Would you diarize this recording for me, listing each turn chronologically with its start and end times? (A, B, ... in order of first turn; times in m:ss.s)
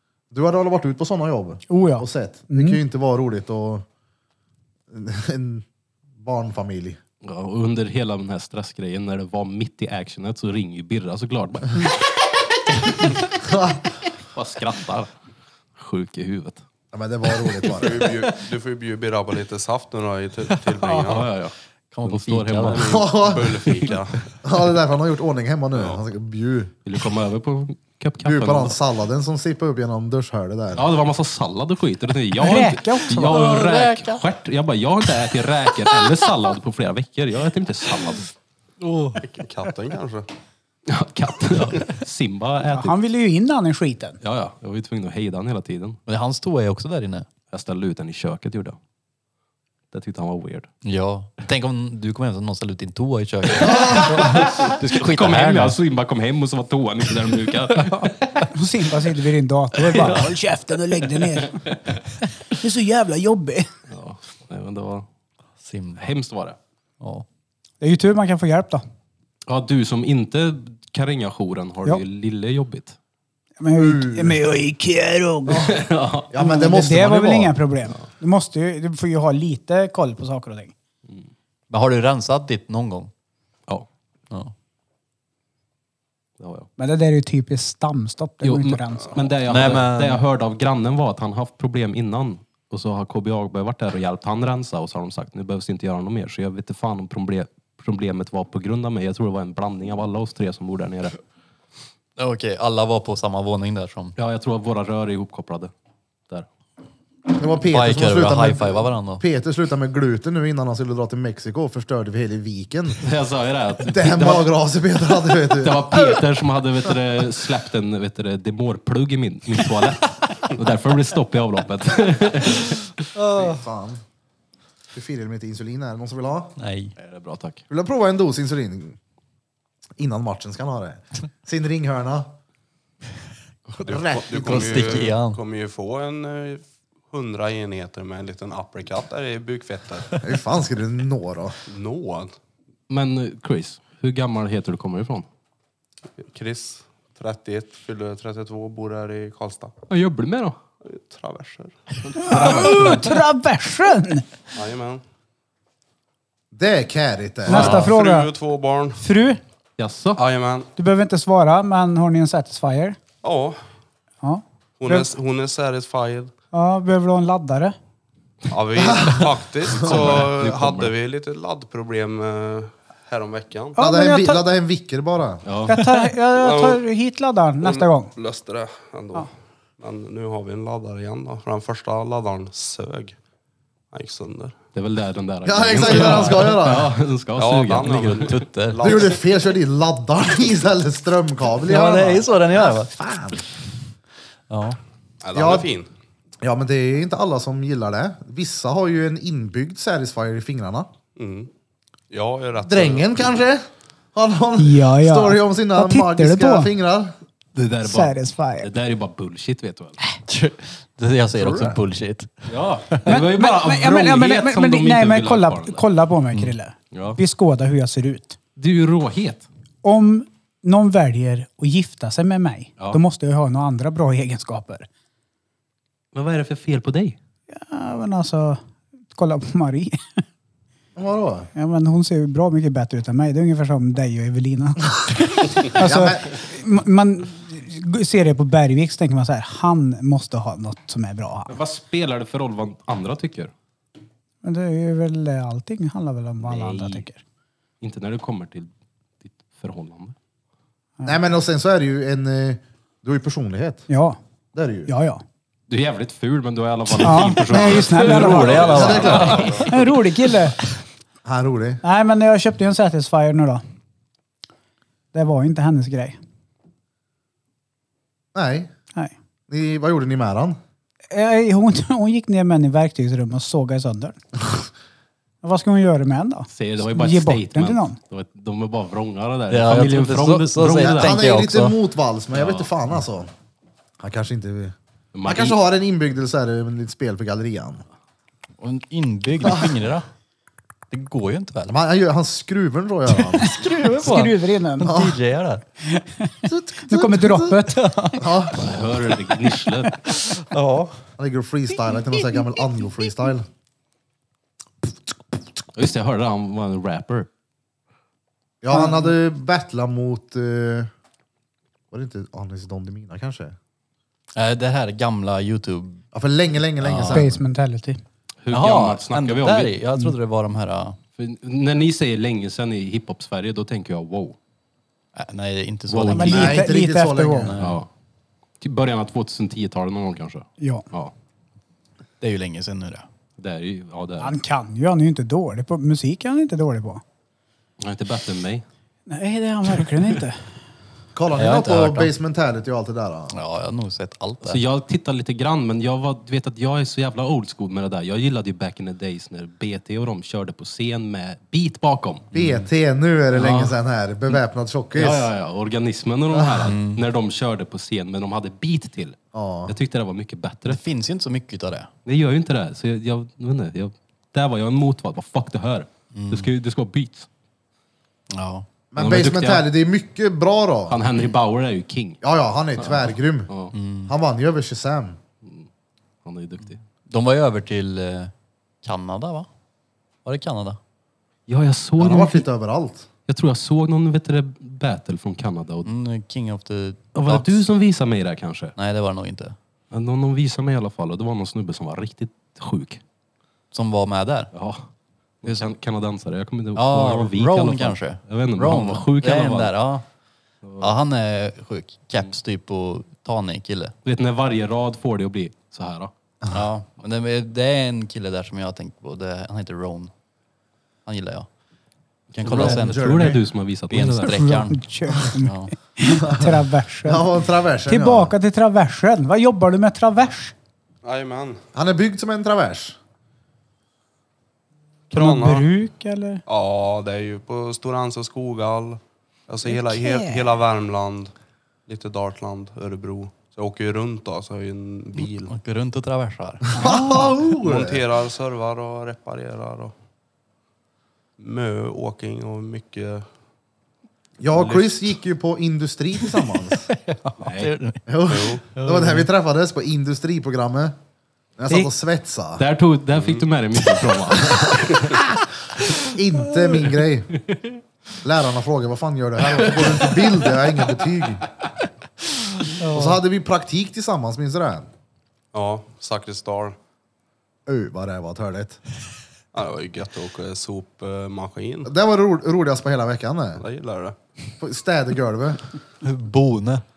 0:00.3-0:03.8 A
0:01.7-0:02.8 B
0:04.9-0:05.6 A
0:06.2-0:07.0 A
0:07.2-0:12.0 C
0:12.7-0:13.2 C
0:13.4-0:13.8 A
0:14.3-0:15.1 C
0:15.8-0:16.6 C
0:16.9-0:18.1 A
0:17.7-0:21.3 D
0:20.7-0:21.2 E
0:21.0-0:23.0 C
0:21.9-0:22.8 E
0:22.7-0:24.2 D
0:22.8-0:23.6 A
0:24.4-0:26.7 A
0:25.7-0:26.0 D
0:26.8-0:28.8 C
0:28.2-0:30.8 A
0:30.8-0:38.3 C
0:32.4-0:33.6 B
0:33.1-0:34.2 E
0:38.8-0:39.2 E
0:39.2-0:40.3 D
0:40.9-0:43.0 C
0:42.7-0:44.2 B
0:44.2-0:46.0 C
0:46.1-0:47.3 E
0:47.5-0:48.8 C
0:49.9-0:50.7 C
0:50.8-0:55.8 E
0:53.6-0:58.5 C
0:53.6-0:54.2 A
0:58.5-1:01.6 B
0:59.8-1:00.3 C
1:01.1-1:01.7 C
1:02.4-1:03.7 B
1:03.9-1:05.0 C
1:05.6-1:06.1 E
1:06.0-1:06.6 C
1:07.0-1:07.2 E
1:07.8-1:08.8 B
1:09.5-1:13.0 C
1:13.6-1:15.7 B
1:13.7-1:14.4 A
1:15.5-1:17.6 A
1:15.7-1:16.3 C
1:16.3-1:20.7 B
1:21.7-1:23.1 E
1:26.4-1:26.7 C
1:26.8-1:29.3 B
1:28.4-1:41.2 C
1:29.5-1:30.2 E
1:42.2-1:44.1 E
1:44.2-1:45.7 C
1:47.3-1:53.0 A
1:47.7-1:49.2 E
1:53.0-1:54.5 C
1:53.8-1:56.0 A
1:55.5-2:03.0 C
2:03.2-2:03.6 E
2:03.3-2:04.0 A
2:04.9-2:06.6 A
2:06.6-2:06.9 E
2:07.0-2:07.6 C
2:07.7-2:09.0 A
2:10.0-2:12.3 A
2:13.8-2:20.2 D
2:13.8-2:15.0 A
2:14.3-2:15.4 E
2:20.2-2:21.6 A
2:21.7-2:22.3 D
2:22.9-2:25.2 C
2:26.2-2:29.7 D
2:29.9-2:30.6 C
2:30.8-2:31.7 D
2:32.1-2:33.2 C
2:32.2-2:34.2 B
2:34.5-2:35.0 D
2:36.5-2:37.8 A
2:37.5-2:38.3 B
2:37.5-2:37.8 C
2:37.5-2:39.0 D
2:39.0-2:39.4 B
2:39.8-2:40.2 C
2:40.2-2:40.7 D
2:40.8-2:43.0 B
2:43.2-2:43.6 D
2:44.2-2:45.1 B
2:44.8-2:46.3 D
2:46.5-2:47.8 B
2:48.5-2:53.8 D
2:48.8-2:49.2 A
2:49.8-2:50.1 A
2:49.8-2:50.9 C
2:53.8-2:54.4 B
2:53.8-2:55.4 A
2:55.4-2:55.8 C
2:55.7-2:58.1 B
2:56.3-2:56.8 D
2:57.6-3:03.2 D
3:03.9-3:04.5 D
3:04.7-3:08.4 C
3:05.4-3:06.9 A
3:07.4-3:09.2 D
3:07.8-3:09.0 E
3:08.8-3:13.4 A
3:11.6-3:12.9 E
3:14.5-3:14.8 E
3:15.2-3:15.9 D
3:15.3-3:15.7 A
3:16.4-3:20.9 A
3:21.2-3:21.5 D
3:22.1-3:23.1 D
3:22.6-3:27.1 A
3:24.6-3:26.7 B
3:27.5-3:30.0 C
3:27.8-3:28.7 B
3:30.2-3:33.1 E
3:31.4-3:31.8 A
3:32.5-3:35.8 C
3:33.1-3:38.4 B
3:36.9-3:37.2 C
3:38.6-3:39.4 C
3:39.8-3:44.9 B
3:46.1-3:47.2 C
3:47.5-3:48.6 B
3:49.1-3:50.2 B
3:51.0-3:51.5 A
3:51.5-4:01.5 B
3:55.6-3:56.3 A
4:01.5-4:03.5 C
4:04.4-4:07.2 B
4:06.4-4:07.0 C
4:07.8-4:08.7 C
4:09.2-4:10.1 C
4:11.0-4:13.9 A
4:13.9-4:14.2 B
4:14.5-4:14.9 A
4:14.9-4:15.2 B
4:15.7-4:19.9 C
4:16.9-4:20.6 B
4:18.1-4:18.4 E
4:18.2-4:19.7 D
4:18.7-4:19.5 A
4:18.9-4:19.4 E
4:21.2-4:21.8 A
4:21.8-4:23.6 B
4:25.1-4:26.2 B
4:28.3-4:28.7 A
4:29.5-4:30.6 A
4:31.1-4:34.2 B
4:35.4-4:38.0 B
4:36.5-4:41.2 C
4:39.5-4:41.8 E
4:40.8-4:43.3 A
4:42.3-4:42.7 C
4:44.0-4:47.8 A
4:45.1-4:45.6 C
4:48.6-4:50.1 E
4:50.9-4:51.8 E
4:51.7-4:53.6 A
4:53.4-4:55.0 B
4:53.4-4:55.6 E
4:54.8-4:55.2 A
4:55.8-4:58.3 B
4:56.5-4:57.5 A
4:57.5-4:58.2 E
4:58.2-4:58.7 A
4:58.5-5:00.0 C
5:00.1-5:01.0 E
5:01.2-5:03.5 A
5:05.7-5:07.3 C
5:08.6-5:10.9 A
5:08.7-5:09.1 B
5:11.9-5:13.6 A
5:14.3-5:16.0 E
5:16.1-5:17.4 A
5:16.8-5:17.3 E
5:17.1-5:18.0 B
5:18.4-5:19.8 C
5:18.5-5:21.0 E
5:21.2-5:24.4 C
5:25.1-5:26.7 E
5:25.9-5:26.6 C
5:26.1-5:27.5 B
5:26.3-5:27.5 A
5:27.4-5:27.8 E
5:27.6-5:27.9 C
5:28.6-5:31.1 C
5:30.6-5:30.8 B
5:32.2-5:33.0 E
5:33.4-5:34.4 C
5:34.2-5:37.0 B
5:37.8-5:38.6 C
5:39.1-5:40.4 B
5:41.1-5:43.3 A
5:41.3-5:42.1 E
5:43.3-5:44.6 E
5:44.4-5:52.3 C
5:52.3-5:52.7 E
5:52.3-5:55.3 A
5:53.3-5:53.8 E
5:55.0-6:00.8 C
5:56.3-5:56.6 A
5:56.6-5:57.0 E
5:59.3-5:59.7 A
6:00.7-6:01.9 E
6:02.0-6:07.3 C
6:06.1-6:06.5 E
6:08.3-6:08.7 E
6:08.9-6:11.0 A
6:09.0-6:09.7 C
6:10.9-6:12.2 C
6:12.2-6:13.5 A
6:12.8-6:13.7 C
6:13.7-6:14.1 E
6:14.1-6:15.2 A
6:16.2-6:16.8 C
6:17.0-6:18.3 E
6:18.8-6:19.5 E
6:20.2-6:20.8 E
6:21.5-6:22.4 C
6:22.0-6:23.1 A
6:23.3-6:25.9 C
6:25.8-6:27.6 E
6:27.1-6:28.7 C
6:28.8-6:29.6 E
6:29.9-6:33.0 C
6:33.7-6:34.5 E
6:34.5-6:34.8 C
6:35.4-6:39.7 C
6:35.4-6:35.7 E
6:36.7-6:40.0 E
6:40.6-6:40.9 C
6:40.8-6:43.9 E
6:44.0-6:46.1 C
6:46.5-6:50.1 E
6:51.0-6:51.5 E
6:52.3-6:53.2 E
6:52.4-6:54.3 C
6:52.5-6:53.4 A
6:53.9-6:55.7 E
6:54.2-6:57.3 B
6:56.2-6:56.5 A
6:57.0-6:58.3 A
6:57.9-7:00.5 B
7:01.0-7:01.6 D
7:01.7-7:03.0 A
7:05.1-7:05.7 D
7:05.1-7:06.4 B
7:06.5-7:11.3 D
7:09.6-7:10.5 B
7:11.8-7:15.5 D
7:15.4-7:16.8 E
7:16.7-7:18.0 A
7:16.8-7:17.4 B
7:17.5-7:19.9 D
7:21.4-7:23.3 D
7:24.4-7:26.9 A
7:24.5-7:25.1 D
7:26.9-7:29.3 E
7:27.4-7:27.7 C
7:28.1-7:31.0 A
7:28.3-7:28.6 D
7:31.6-7:32.6 A
7:32.6-7:35.2 C
7:33.1-7:33.5 D
7:36.0-7:37.3 A
7:37.5-7:37.8 C
7:38.2-7:41.4 A
7:42.8-7:43.1 B
7:42.8-7:44.9 A
7:45.5-7:46.8 D
7:47.7-7:48.8 A
7:49.5-7:51.9 D
7:51.8-7:53.6 A
7:53.6-7:54.2 D
7:54.6-7:55.6 A
7:56.0-7:56.8 E